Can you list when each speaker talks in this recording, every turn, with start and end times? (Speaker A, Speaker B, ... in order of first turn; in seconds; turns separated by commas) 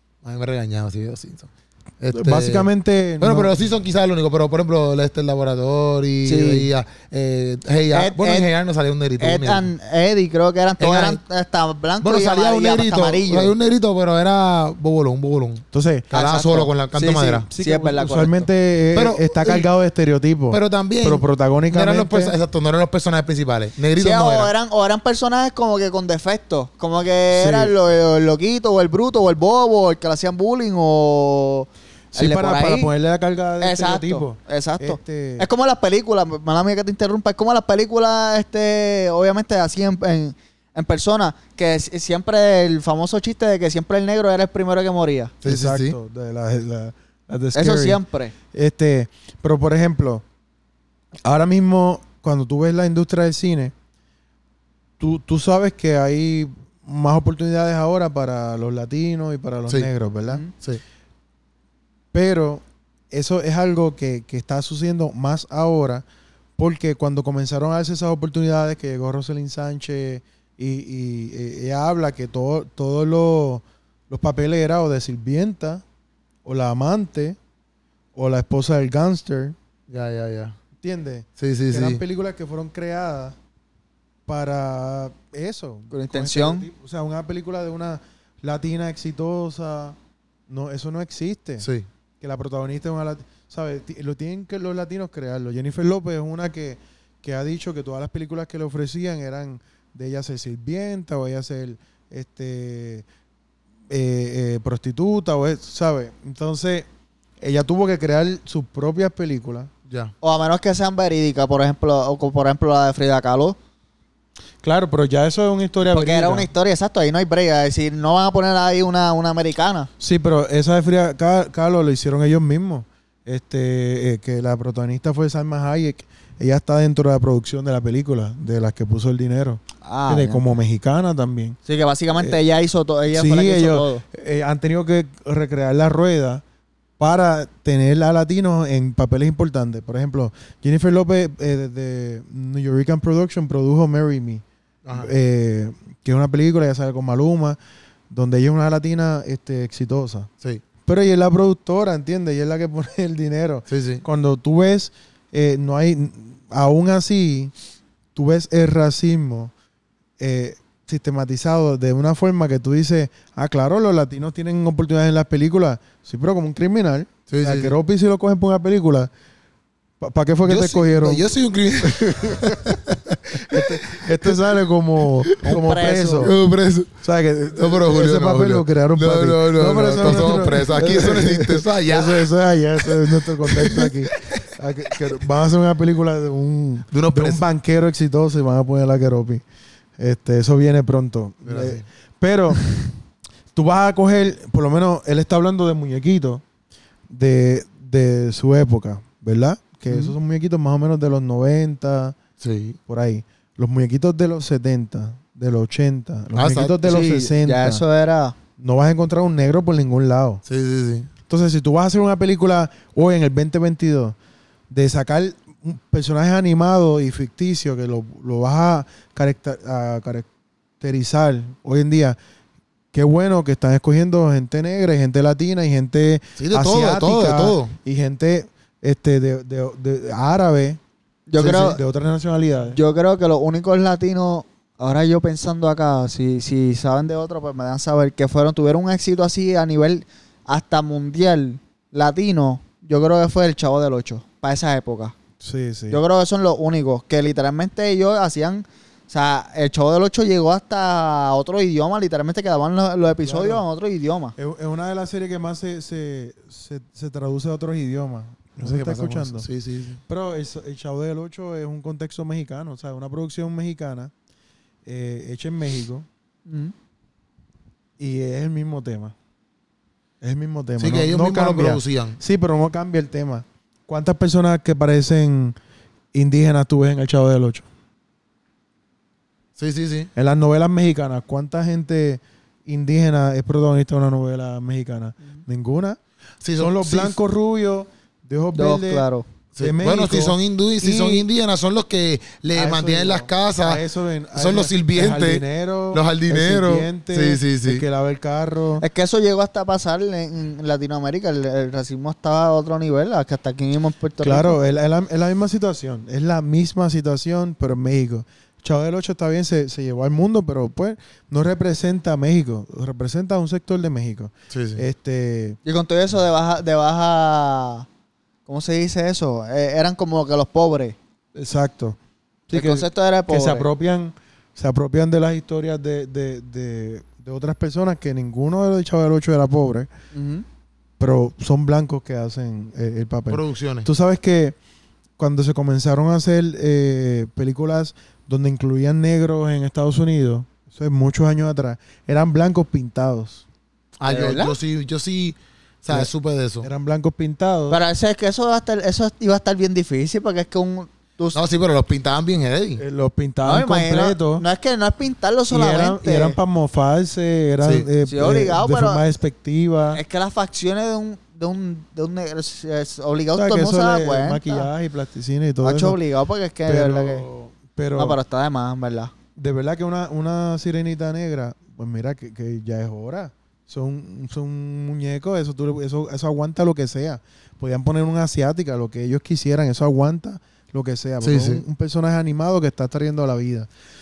Speaker A: 0.2-9.7, Speaker B: 2.1-3.6, Speaker C: 6.2-6.7, Speaker C: 7.9-8.5, Speaker C: 9.2-13.5, Speaker A: 10.8-11.2, Speaker A: 12.0-17.5, Speaker B: 15.7-16.1, Speaker C: 16.1-18.5, Speaker B: 17.5-22.4, Speaker A: 18.9-19.7, Speaker A: 20.5-24.5, Speaker C: 23.9-32.9, Speaker B: 27.3-27.7, Speaker B: 32.1-35.5, Speaker C: 33.6-45.3, Speaker A: 45.4-46.0, Speaker B: 45.4-48.0, Speaker C: 47.5-48.3, Speaker B: 48.5-50.2, Speaker B: 51.2-53.7, Speaker B: 55.0-60.4, Speaker B: 62.1-66.0, Speaker B: 66.6-75.8, Speaker B: 76.5-77.4, Speaker B: 78.2-79.6, Speaker A: 79.9-80.6, Speaker B: 80.8-83.4, Speaker A: 81.4-82.0, Speaker B: 84.3-90.0, Speaker C: 85.9-86.7, Speaker B: 90.5-91.7, Speaker A: 91.6-91.9, Speaker B: 92.2-103.1, Speaker B: 103.9-106.9, Speaker B: 107.4-109.7, Speaker C: 110.2-113.6, Speaker B: 114.6-116.5, Speaker C: 115.8-119.9, Speaker B: 120.0-131.6, Speaker C: 129.8-130.4, Speaker C: 131.7-134.0, Speaker B: 133.1-136.4, Speaker B: 137.0-144.4, Speaker A: 144.8-145.1, Speaker B: 144.9-147.6, Speaker B: 148.1-150.3, Speaker B: 150.9-157.5, Speaker A: 153.7-154.0, Speaker B: 158.2-159.5, Speaker B: 160.2-169.1, Speaker A: 167.3-167.8, Speaker B: 170.0-171.3, Speaker A: 170.4-174.4, Speaker B: 171.8-172.7, Speaker B: 173.3-176.3, Speaker A: 175.2-175.6, Speaker C: 175.5-176.3, Speaker A: 176.2-177.0, Speaker B: 177.0-189.4, Speaker A: 177.6-182.3, Speaker A: 182.8-184.4, Speaker A: 186.9-187.4, Speaker B: 190.0-192.9, Speaker A: 191.4-191.8, Speaker B: 193.5-196.4, Speaker B: 197.1-202.2, Speaker A: 202.4-202.8, Speaker B: 202.9-207.8, Speaker A: 206.4-206.8, Speaker C: 206.8-208.3, Speaker B: 208.6-210.4, Speaker A: 210.4-211.1, Speaker B: 211.3-214.2, Speaker B: 214.7-220.3, Speaker B: 220.8-222.2, Speaker B: 222.9-230.8, Speaker A: 226.4-227.8, Speaker C: 231.3-231.8, Speaker A: 231.4-231.8, Speaker B: 231.4-232.8, Speaker C: 232.8-245.1, Speaker B: 245.4-246.0, Speaker C: 245.9-254.3, Speaker B: 253.2-253.6, Speaker B: 254.4-259.5, Speaker A: 258.6-260.0, Speaker B: 260.1-264.1, Speaker B: 264.9-266.1, Speaker C: 266.5-266.7, Speaker B: 268.0-269.1, Speaker B: 270.2-275.6, Speaker A: 270.8-272.2, Speaker B: 276.1-277.7, Speaker A: 279.6-280.1, Speaker B: 280.2-286.0, Speaker A: 286.4-287.2, Speaker B: 286.6-289.1, Speaker C: 288.6-289.3, Speaker A: 289.6-293.8, Speaker B: 289.6-291.3, Speaker B: 292.5-298.9, Speaker A: 294.4-297.8, Speaker C: 298.8-304.6, Speaker B: 304.2-315.6, Speaker A: 314.5-314.8, Speaker C: 315.6-317.9, Speaker C: 318.5-321.0, Speaker B: 321.4-322.0, Speaker B: 322.5-329.9, Speaker C: 322.5-323.7, Speaker C: 330.1-330.4, Speaker B: 331.0-334.6, Speaker A: 333.3-333.9, Speaker B: 335.2-343.4, Speaker A: 344.0-346.7, Speaker C: 344.1-344.5, Speaker B: 346.6-347.8, Speaker C: 347.7-351.4, Speaker A: 351.3-352.8, Speaker B: 352.8-354.4, Speaker C: 353.4-356.4, Speaker B: 355.5-360.0, Speaker C: 358.1-359.0, Speaker C: 359.9-364.7, Speaker B: 363.3-366.0, Speaker C: 365.6-367.2, Speaker B: 366.7-368.2, Speaker C: 368.0-369.1, Speaker B: 369.4-383.7, Speaker A: 381.2-381.6